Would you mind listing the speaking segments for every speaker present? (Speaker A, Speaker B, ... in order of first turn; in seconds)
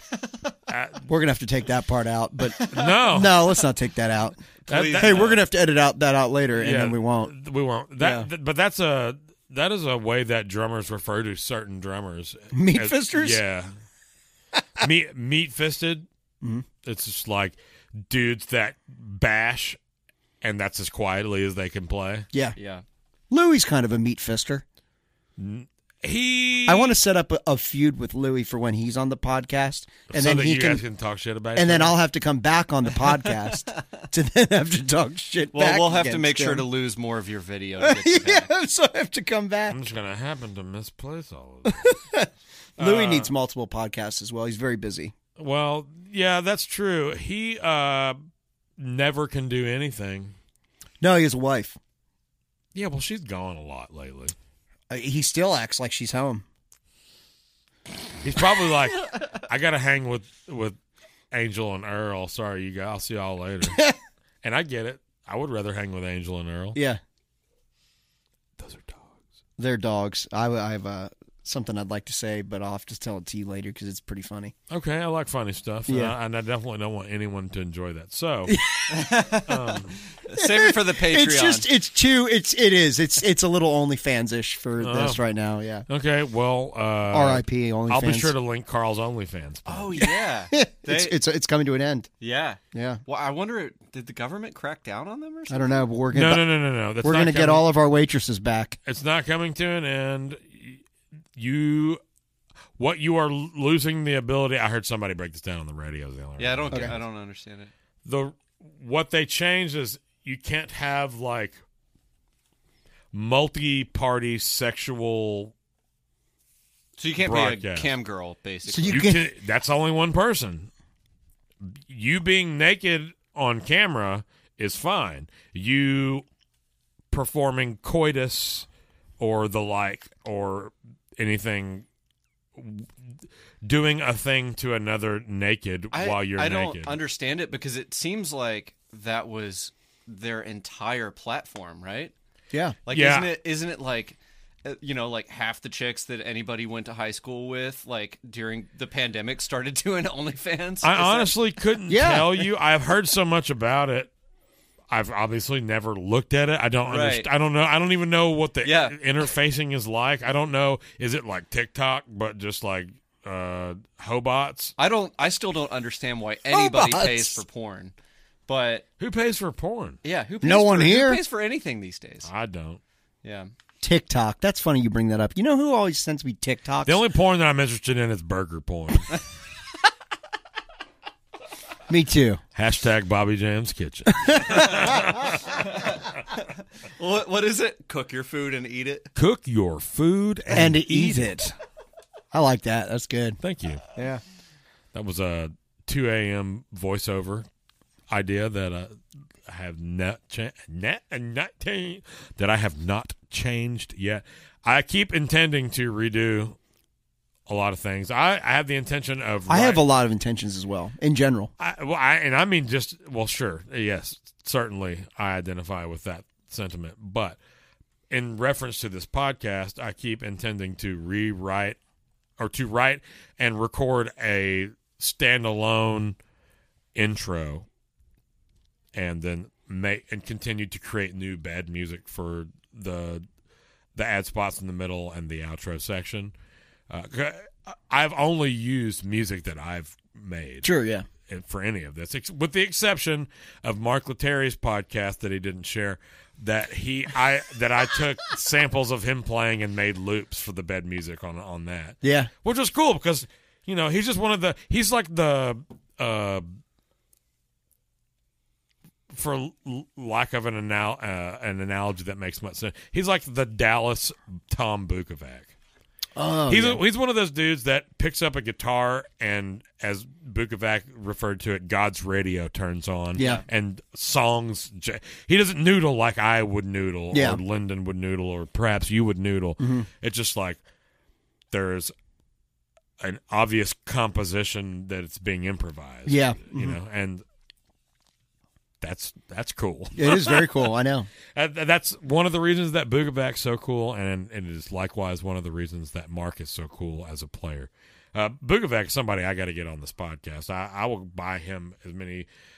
Speaker A: 0.7-1.1, 2.7-3.4, 4.7-5.4, 6.6-13.7, 14.8-16.1, 16.8-19.8, 20.4-22.3, 25.4-27.0, 30.1-32.0, 39.7-41.9, 42.8-43.3, 45.4-48.2, 48.8-50.3, 52.7-54.3, 58.2-60.8, 61.3-63.8, 64.4-66.8, 68.6-69.2, 74.7-78.6, 79.4-80.0, 84.8-85.2, 85.9-90.0, 96.1-97.7, 98.8-100.8, 101.3-102.0, 102.8-107.0, 108.0-111.6, 113.1-115.5, 117.2-117.9, 118.8-120.7, 121.6-126.2, 127.1-128.7, 129.2-131.8, 132.5-137.0, 142.9-143.3, 150.8-154.1, 154.9-164.7, 169.0-170.0, 172.2-172.8, 176.8-179.2, 182.5-185.6, 189.1-191.3, 193.4-193.8, 194.9-197.5, 198.1-206.6, 207.5-209.8, 211.6-217.4, 218.1-221.8, 222.4-226.2, 226.9-227.7, 228.9-233.2, 233.9-236.3, 236.9-240.7, 241.3-256.6, 259.1-265.5, 266.5-280.6, 281.5-281.9, 283.0-287.2, 288.8-290.5, 291.3-302.3
Speaker B: 1.1-7.3, 8.0-8.3, 12.5-13.4, 23.3-24.6, 26.6-30.8, 31.5-36.6, 37.8-39.8, 41.6-45.1, 51.0-51.8, 54.9-56.4, 66.7-67.0, 69.6-74.5, 75.9-76.1, 78.5-79.3, 80.3-85.8, 87.1-88.3, 90.0-92.1, 92.7-93.0, 95.5-96.5, 97.0-98.8, 118.7-119.2, 142.5-142.8, 151.9-152.4, 166.5-167.4, 170.4-171.2, 173.8-177.0, 181.9-182.4, 184.1-185.0, 190.5-191.5, 192.3-193.4, 193.9-194.2, 209.5-211.5, 240.6-241.1, 252.0-252.3, 266.1-266.8, 273.2-273.4, 277.1-277.4, 279.6-279.9, 286.1-286.8, 289.9-291.1
Speaker C: 2.5-3.0, 4.7-5.4, 22.6-22.8, 35.5-38.5, 78.9-81.7, 89.7-91.2, 92.2-95.9, 106.4-107.7, 117.0-119.1, 135.9-142.1, 142.8-151.3, 156.8-157.3, 158.6-159.0, 164.8-167.9, 168.5-168.8, 170.0-172.3, 173.2-173.5, 185.5-186.4, 187.0-189.1, 273.2-273.4